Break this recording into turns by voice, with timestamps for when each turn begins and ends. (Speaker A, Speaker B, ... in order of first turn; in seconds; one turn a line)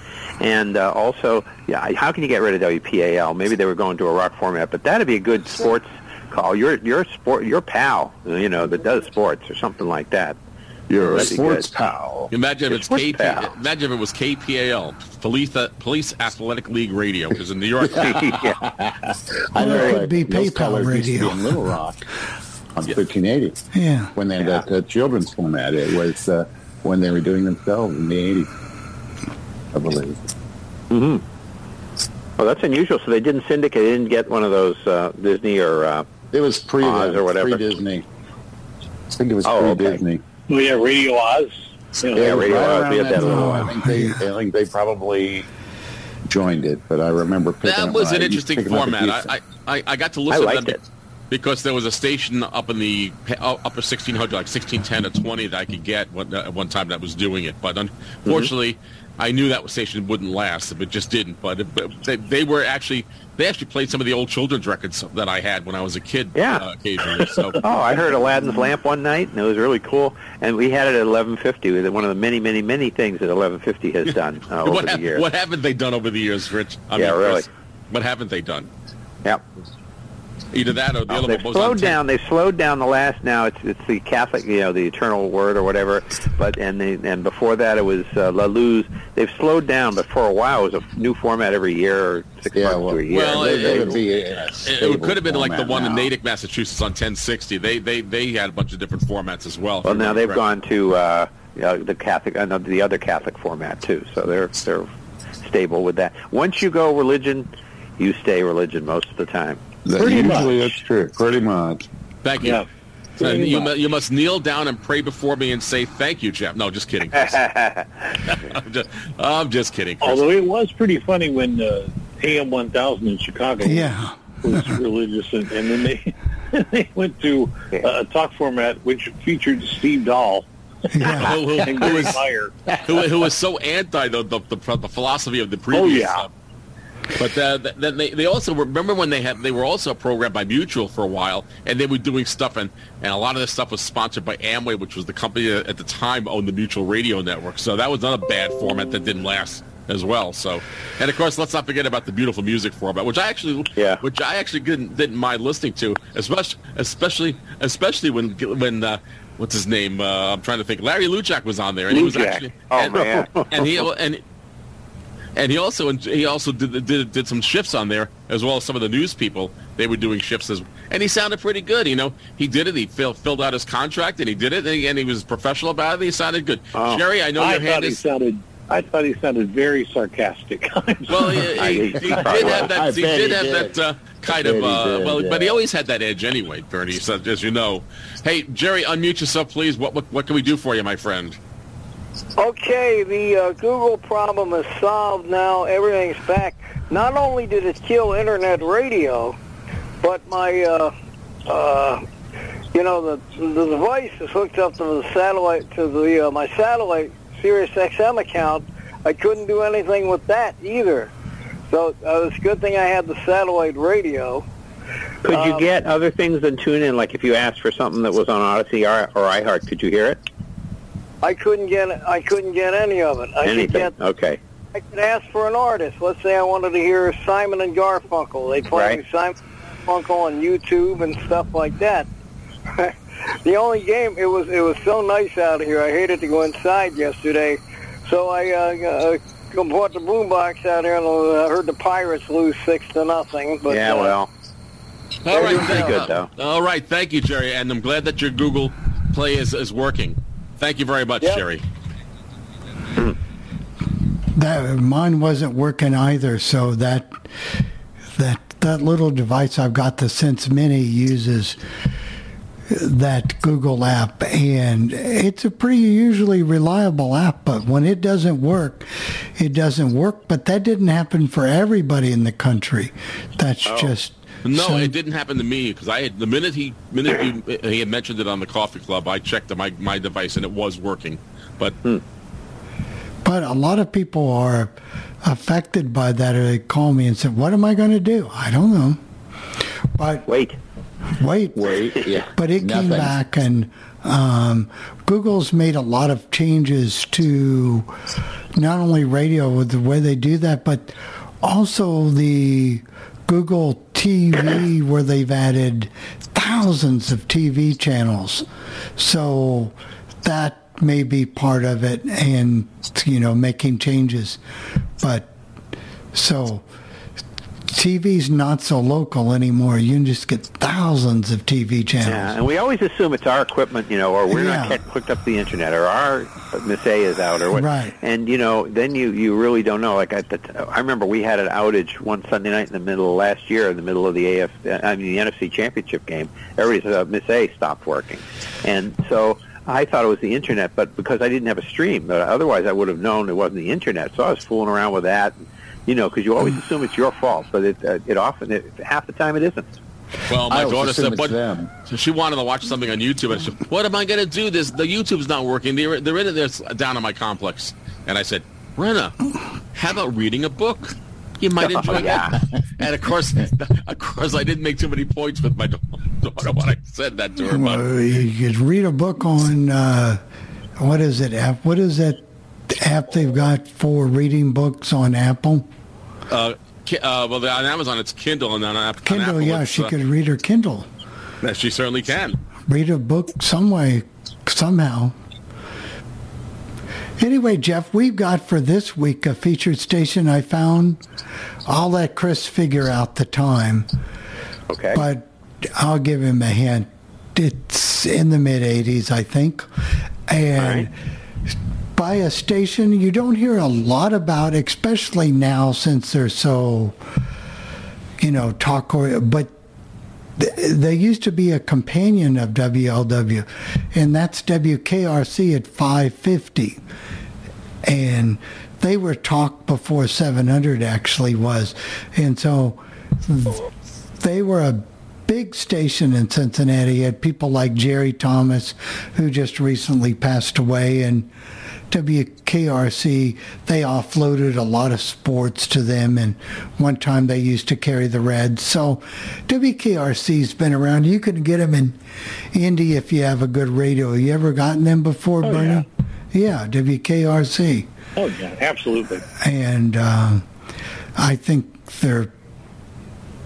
Speaker A: 0.4-10.4
Speaker B: 10.9-12.3
Speaker A: 11.1-11.7
Speaker C: 12.3-18.3
Speaker A: 12.7-13.5
Speaker B: 17.9-22.0
Speaker A: 18.0-18.6
Speaker D: 19.5-21.6
Speaker A: 19.7-20.0
Speaker B: 22.7-23.6
Speaker D: 23.7-24.1
Speaker B: 24.1-28.5
Speaker B: 29.7-30.2
Speaker A: 30.9-31.2
Speaker A: 32.4-36.1
Speaker B: 36.3-38.0
Speaker A: 36.8-37.6
Speaker B: 39.1-40.2
Speaker A: 39.4-40.0
Speaker E: 40.5-42.5
Speaker B: 42.1-45.5
Speaker A: 42.1-43.7
Speaker D: 43.2-44.2
Speaker B: 46.3-49.3
Speaker C: 47.6-50.8
Speaker A: 50.3-50.8
Speaker C: 51.3-67.6
Speaker A: 66.3-66.6
Speaker A: 67.6-75.2
Speaker C: 74.6-78.7
Speaker A: 77.0-77.5
Speaker C: 80.5-82.0
Speaker A: 81.1-94.0
Speaker B: 92.5-96.1
Speaker C: 93.1-94.0
Speaker C: 94.6-100.4
Speaker A: 99.8-104.9
Speaker A: 105.4-109.6
Speaker B: 109.8-111.8
Speaker E: 110.0-110.5
Speaker A: 110.1-110.5
Speaker C: 112.2-112.6
Speaker C: 113.2-117.4
Speaker E: 113.2-113.7
Speaker A: 117.2-117.9
Speaker C: 118.3-120.2
Speaker E: 120.0-130.4
Speaker D: 123.6-124.1
Speaker D: 130.9-131.4
Speaker E: 131.0-132.8
Speaker C: 131.1-132.2
Speaker C: 132.8-136.3
Speaker E: 135.7-136.2
Speaker C: 137.2-164.2
Speaker A: 153.8-154.0
Speaker E: 161.9-162.5
Speaker A: 162.7-163.8
Speaker C: 165.4-178.0
Speaker A: 176.7-177.0
Speaker E: 177.4-181.5
Speaker C: 181.1-191.4
Speaker A: 181.6-182.7
Speaker B: 182.2-183.7
Speaker B: 184.3-185.6
Speaker F: 192.4-199.3
Speaker F: 200.0-200.9
Speaker F: 201.5-202.0
Speaker F: 202.7-211.1
Speaker F: 211.7-214.4
Speaker A: 215.2-220.2
Speaker F: 215.3-215.7
Speaker F: 221.2-223.9
Speaker A: 223.4-224.4
Speaker F: 224.8-229.3
Speaker A: 228.7-229.0
Speaker F: 229.9-232.1
Speaker F: 233.4-244.2
Speaker A: 243.7-244.3
Speaker C: 245.2-251.6
Speaker A: 245.3-246.3
Speaker D: 254.3-257.3
Speaker D: 258.1-261.6
Speaker D: 262.7-274.9
Speaker A: 273.6-273.9
Speaker C: 274.4-281.8
Speaker D: 283.2-289.0
Speaker D: 290.0-290.3
Speaker A: 290.3-290.6
Speaker D: 291.2-291.7
Speaker B: 291.6-293.1
Speaker D: 292.3-297.9
Speaker D: 298.6-308.4
Speaker D: 309.0-314.4
Speaker D: 315.0-315.3
Speaker D: 316.1-316.6
Speaker D: 317.7-322.3
Speaker A: 322.1-349.7
Speaker D: 324.3-324.8
Speaker D: 327.5-327.9
Speaker C: 350.3-359.1
Speaker B: 350.5-351.7
Speaker C: 359.7-367.8
Speaker A: 361.6-362.3
Speaker D: 367.4-370.2
Speaker D: 370.8-375.7
Speaker C: 376.3-379.9
Speaker D: 379.1-380.9
Speaker C: 381.4-382.4
Speaker D: 382.7-385.1
Speaker D: 387.2-391.0
Speaker D: 391.7-393.9
Speaker A: 394.7-395.0
Speaker D: 394.9-399.7
Speaker D: 400.3-400.9
Speaker A: 400.6-400.9
Speaker D: 401.9-407.0
Speaker D: 408.2-409.5
Speaker D: 410.4-416.8
Speaker D: 417.8-423.6
Speaker D: 424.2-431.3
Speaker D: 431.9-442.0
Speaker D: 442.5-447.9
Speaker E: 445.4-445.8
Speaker E: 448.2-449.2
Speaker D: 449.4-450.4
Speaker D: 451.2-452.3